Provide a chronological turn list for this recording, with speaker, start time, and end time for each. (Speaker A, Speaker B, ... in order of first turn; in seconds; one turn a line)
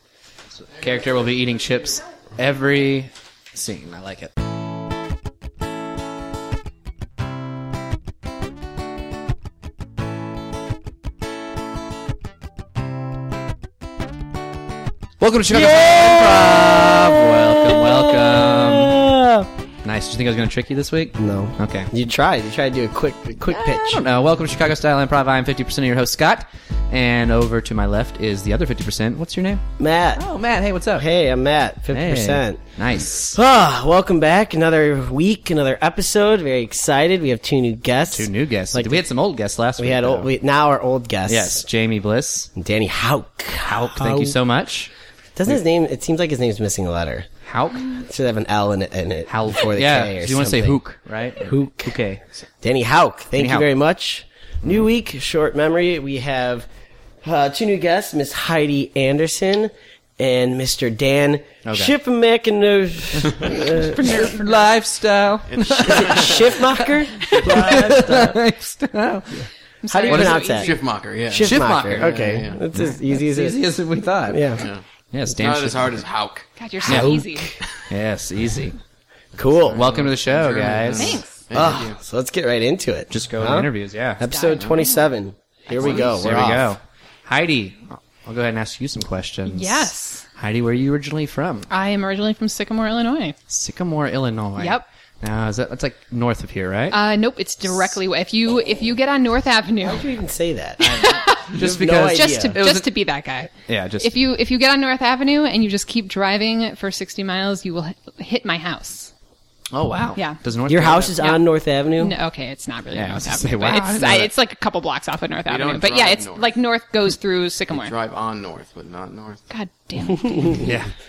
Speaker A: 0.6-4.3
Speaker A: 15.2-19.0
Speaker B: 15.5-19.5
Speaker A: 19.8-21.9
Speaker B: 21.2-24.0
Speaker A: 23.5-29.6
Speaker B: 29.8-30.2
Speaker A: 30.2-31.1
Speaker B: 31.0-32.6
Speaker A: 31.9-33.4
Speaker B: 33.3-39.0
Speaker A: 38.1-40.3
Speaker B: 39.8-41.6
Speaker A: 41.3-42.5
Speaker B: 42.5-44.4
Speaker A: 43.6-44.9
Speaker B: 45.4-47.3
Speaker A: 47.5-48.0
Speaker B: 48.0-50.8
Speaker A: 49.3-52.2
Speaker B: 51.4-52.0
Speaker B: 52.6-56.7
Speaker A: 53.4-53.7
Speaker B: 57.2-64.0
Speaker A: 61.7-61.9
Speaker C: 63.8-64.7
Speaker A: 64.0-69.5
Speaker D: 65.5-66.6
Speaker B: 65.9-68.4
Speaker D: 67.3-68.0
Speaker C: 69.8-70.7
Speaker B: 69.9-70.7
Speaker D: 70.1-72.6
Speaker B: 71.3-73.6
Speaker A: 71.4-72.2
Speaker A: 72.7-74.6
Speaker B: 74.3-74.6
Speaker D: 74.6-74.8
Speaker A: 75.1-76.0
Speaker D: 75.4-76.5
Speaker C: 76.6-77.5
Speaker B: 76.8-77.6
Speaker A: 76.9-77.2
Speaker A: 77.9-78.8
Speaker B: 79.4-79.9
Speaker D: 79.7-82.0
Speaker A: 79.7-81.8
Speaker C: 81.0-81.4
Speaker B: 81.5-86.8
Speaker A: 83.1-84.3
Speaker C: 84.3-85.1
Speaker C: 85.7-86.1
Speaker A: 85.7-91.7
Speaker C: 89.5-90.3
Speaker C: 91.7-93.4
Speaker A: 93.5-97.0
Speaker C: 94.6-94.8
Speaker C: 96.9-100.1
Speaker B: 99.8-102.6
Speaker C: 100.8-109.1
Speaker A: 100.9-102.9
Speaker A: 103.7-104.1
Speaker A: 109.7-111.3
Speaker B: 110.7-112.2
Speaker C: 111.2-111.4
Speaker C: 112.0-117.9
Speaker A: 112.9-114.3
Speaker D: 115.5-116.5
Speaker D: 117.7-119.4
Speaker C: 119.5-120.7
Speaker B: 120.2-120.7
Speaker A: 120.6-120.9